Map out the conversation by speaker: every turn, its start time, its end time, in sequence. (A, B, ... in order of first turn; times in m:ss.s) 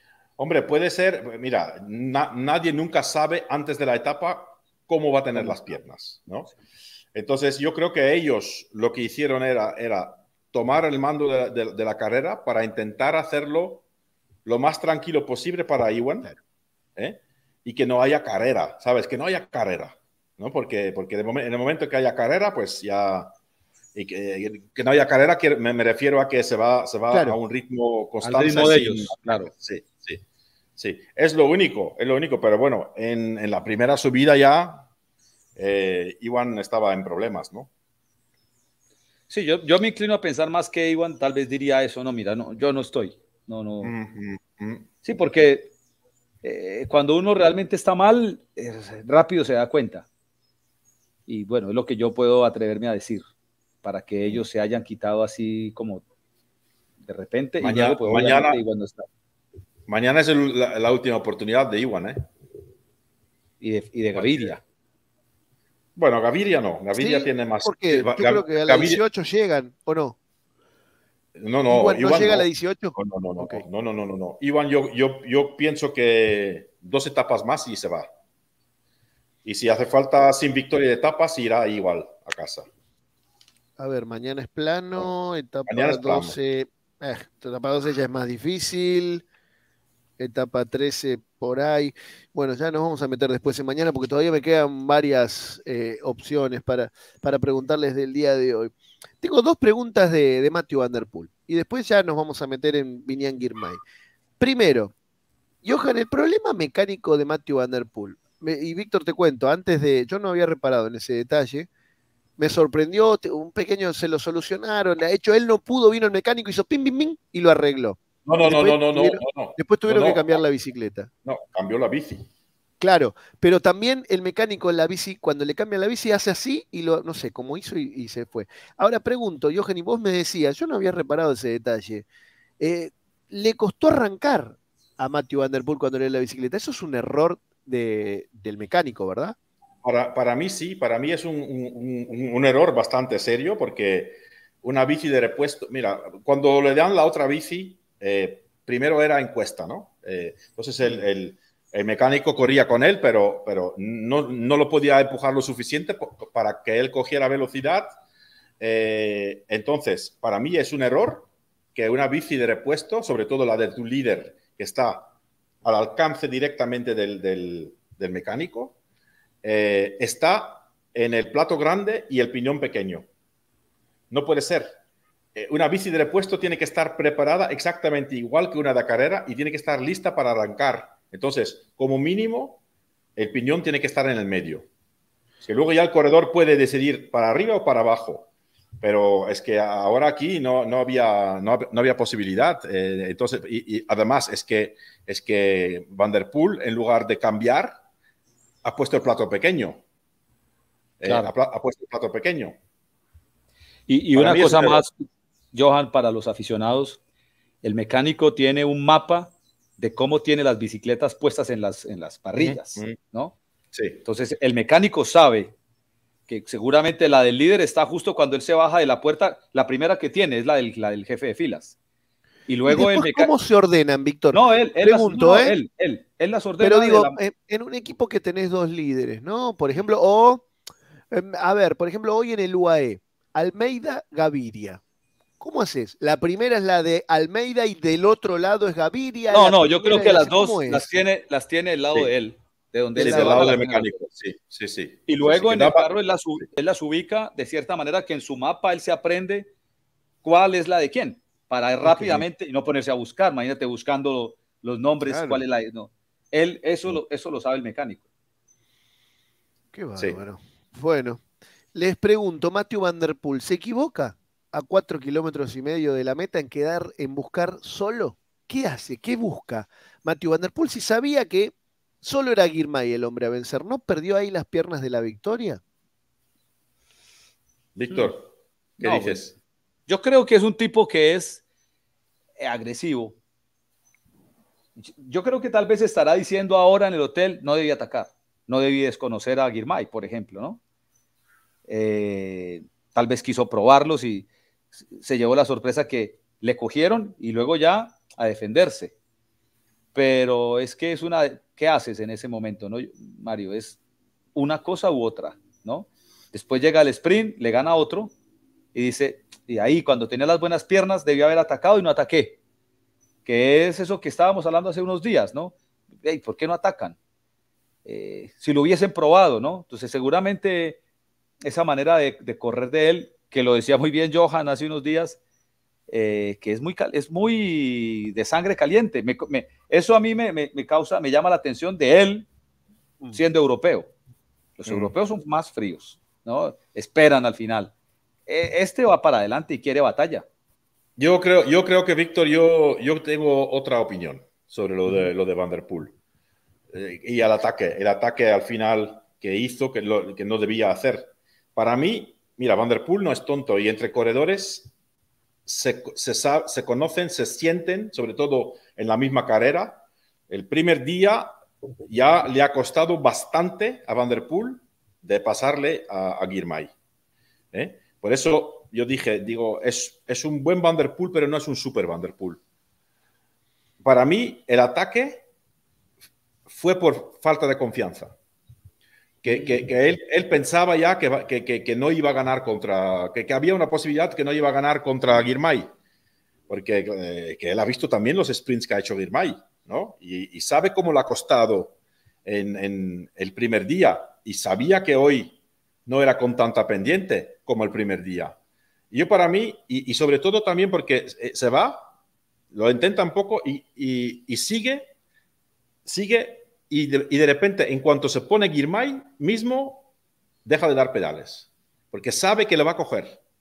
0:00.4-0:06.5 A
0:07.1-0:13.8 A
0:14.4-0:16.3 A
0:17.0-0:23.3 A
0:23.9-0:30.2 A
0:27.1-0:27.4 B
0:28.2-0:29.5 C
0:30.8-0:34.8 A
0:35.6-0:37.7 A
0:39.3-0:43.9 C
0:43.8-0:44.9 A
0:45.0-0:45.7 C
0:46.4-0:50.0 C
0:51.3-0:53.2 C
0:53.8-0:56.0 C
0:57.0-0:59.0 C
0:57.6-0:58.6 A
0:59.9-1:02.3 A
1:03.6-1:04.6 C
1:04.1-1:04.6 A
1:06.0-1:09.0 A
1:07.0-1:10.2 B
1:11.4-1:18.1 A
1:11.7-1:13.6 B
1:19.4-1:22.7 A
1:23.8-1:29.2 B
1:25.7-1:26.4 A
1:30.2-1:43.8 B
1:44.4-1:44.9 B
1:45.6-1:51.7 B
1:52.4-2:01.1 B
1:58.2-2:00.3 A
2:01.2-2:02.2 A
2:02.8-2:12.0 B
2:12.6-2:19.3 B
2:19.8-2:38.0 A
2:38.6-2:45.1 A
2:45.6-2:48.7 A
2:49.4-2:53.1 A
2:54.1-2:54.7 A
2:55.3-3:02.6 A
3:03.2-3:04.7 A
3:05.4-3:08.3 A
3:08.8-3:17.8 A
3:18.6-3:19.8 A
3:21.0-3:22.6 A
3:21.0-3:21.3 C
3:23.9-3:24.9 C
3:24.1-3:24.8 A
3:25.5-3:27.0 C
3:27.6-3:33.4 C
3:32.4-3:33.0 A
3:33.7-3:34.0 A
3:34.0-3:35.6 C
3:36.3-3:41.8 C
3:42.5-3:43.3 C
3:42.7-3:45.5 B
3:44.3-3:47.2 C
3:46.6-3:50.4 B
3:51.1-3:54.8 B
3:55.4-4:01.0 B
3:59.3-4:03.9 C
4:03.0-4:06.4 A
4:03.0-4:03.5 B
4:05.1-4:09.5 C
4:10.2-4:18.0 C
4:11.8-4:12.2 B
4:15.0-4:15.4 B
4:19.7-4:21.2 B
4:21.7-4:35.6 B
4:37.8-4:39.3 A
4:38.8-4:39.2 C
4:39.9-4:41.4 C
4:42.4-4:43.2 C
4:44.8-4:50.6 C
4:51.7-4:54.3 C
4:54.8-4:58.9 C
4:59.9-5:03.8 C
5:04.3-5:08.1 C
5:08.7-5:12.4 C
5:13.2-5:17.0 C
5:17.8-5:20.8 C
5:21.4-5:25.2 C
5:25.9-5:32.3 C
5:33.1-5:33.9 C
5:34.6-5:37.7 C
5:34.6-5:34.9 A
5:38.3-5:40.2 C
5:41.0-5:45.9 A
5:46.7-5:54.7 A
5:55.4-6:06.7 A
6:07.5-6:12.4 A
6:13.8-6:15.2 A
6:16.5-6:18.1 A
6:19.2-6:25.7 A
6:19.3-6:19.5 C
6:26.5-6:31.7 A
6:32.2-6:38.4 A
6:38.9-6:41.9 A
6:42.5-6:44.9 A
6:45.8-6:49.9 A
6:50.4-6:53.2 A